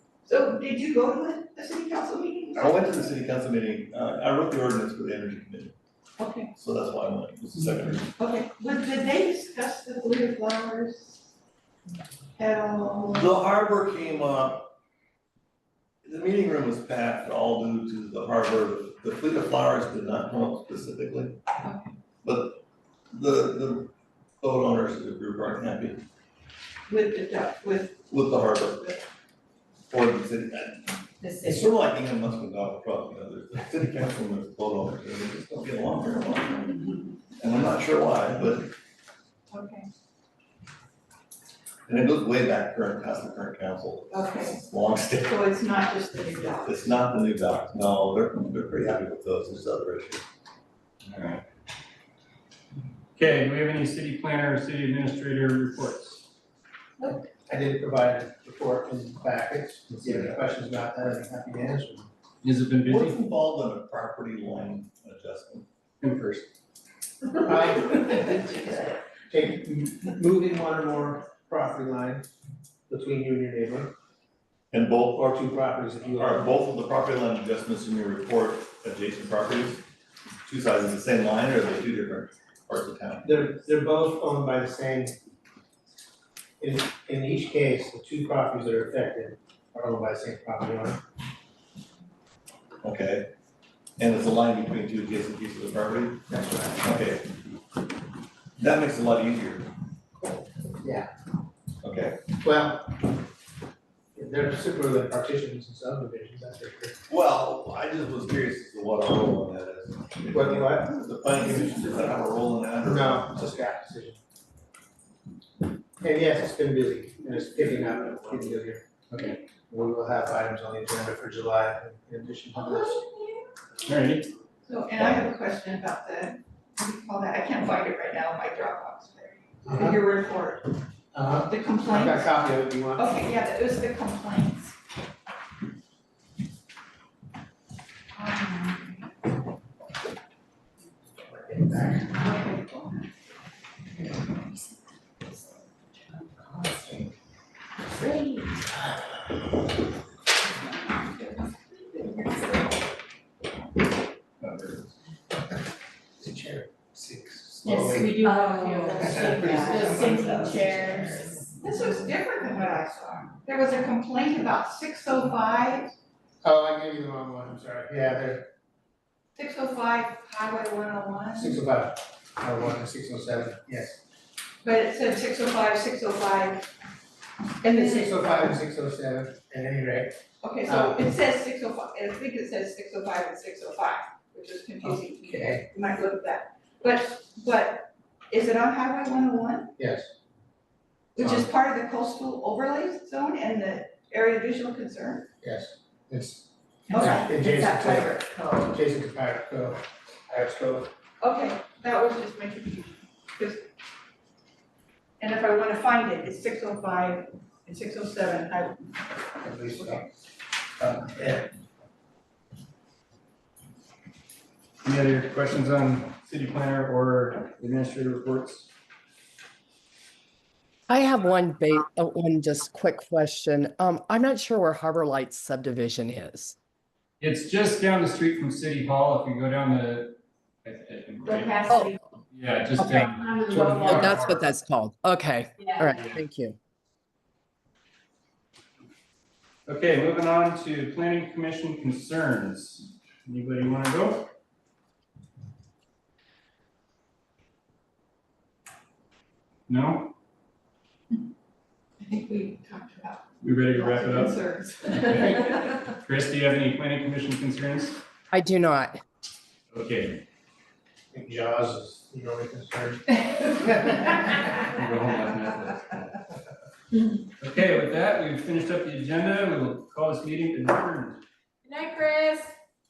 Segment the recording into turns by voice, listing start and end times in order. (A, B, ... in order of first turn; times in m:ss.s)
0:00.2-0:02.9 A
0:02.5-0:05.7 B
0:06.2-0:06.5 A
0:06.6-0:08.2 B
0:08.2-0:11.3 A
0:12.4-0:13.3 A
0:13.1-0:14.7 B
0:16.0-0:21.4 B
0:22.2-0:22.6 B
0:23.1-0:23.9 B
0:24.4-0:26.0 B
0:26.9-0:29.0 A
0:28.1-0:29.0 B
0:29.9-0:30.8 B
0:31.2-0:31.5 A
0:31.4-0:36.8 B
0:37.4-0:38.7 B
0:39.5-0:39.9 A
0:41.9-0:45.4 B
0:44.1-0:44.6 A
0:45.2-0:46.9 A
0:46.6-0:50.2 B
0:51.1-0:51.4 C
0:53.2-0:56.2 C
0:57.0-0:57.3 A
0:57.5-1:02.1 D
0:59.9-1:00.4 B
1:02.4-1:03.2 C
1:02.8-1:05.7 B
1:06.0-1:06.5 C
1:07.4-1:12.3 D
1:12.9-1:13.9 D
1:14.7-1:15.2 B
1:15.1-1:16.6 D
1:16.2-1:19.8 B
1:20.5-1:23.3 B
1:23.2-1:25.2 D
1:26.6-1:31.0 D
1:32.8-1:33.3 B
1:34.0-1:36.2 B
1:36.3-1:36.8 D
1:36.8-1:37.3 B
1:38.6-1:39.7 B
1:40.8-1:41.1 D
1:41.8-1:42.2 B
1:42.4-1:43.0 D
1:44.2-1:47.0 D
1:47.1-1:53.6 B
1:50.3-1:50.9 D
1:52.8-1:54.2 D
1:56.0-1:58.8 D
1:59.1-1:59.4 C
1:59.7-2:03.1 D
2:02.9-2:03.3 A
2:03.8-2:04.3 C
2:04.7-2:10.7 A
2:09.6-2:10.0 D
2:11.1-2:13.1 D
2:11.5-2:12.3 A
2:13.0-2:14.8 A
2:18.1-2:19.1 A
2:21.2-2:22.1 D
2:22.1-2:22.9 A
2:31.0-2:32.4 A
2:36.2-2:38.3 D
2:37.7-2:41.4 E
2:39.0-2:40.7 D
2:39.2-2:40.5 A
2:41.6-2:45.9 A
2:46.4-2:48.5 D
2:49.4-2:51.6 A
2:51.4-2:54.0 D
2:54.6-2:56.7 A
2:57.6-2:58.5 A
2:57.6-3:01.0 D
3:00.4-3:09.7 A
3:04.8-3:05.7 D
3:09.8-3:10.1 D
3:11.2-3:15.3 A
3:11.2-3:11.5 D
3:15.4-3:20.9 D
3:16.9-3:18.7 A
3:21.2-3:23.7 A
3:25.2-3:28.9 A
3:29.4-3:30.1 D
3:30.8-3:31.4 D
3:34.8-3:38.7 C
3:40.9-3:46.6 F
3:47.2-3:54.4 C
3:51.3-3:51.9 E
3:51.7-3:52.0 F
3:52.8-3:53.1 F
3:52.8-3:54.2 E
3:53.8-3:56.6 F
3:55.6-3:56.1 E
3:55.9-3:56.2 C
3:59.7-4:04.3 C
4:09.7-4:10.1 C
4:12.0-4:15.8 A
4:13.4-4:18.0 C
4:18.3-4:19.0 F
4:19.7-4:20.2 C
4:21.1-4:24.5 D
4:24.8-4:26.0 C
4:27.4-4:31.2 C
4:31.6-4:32.5 E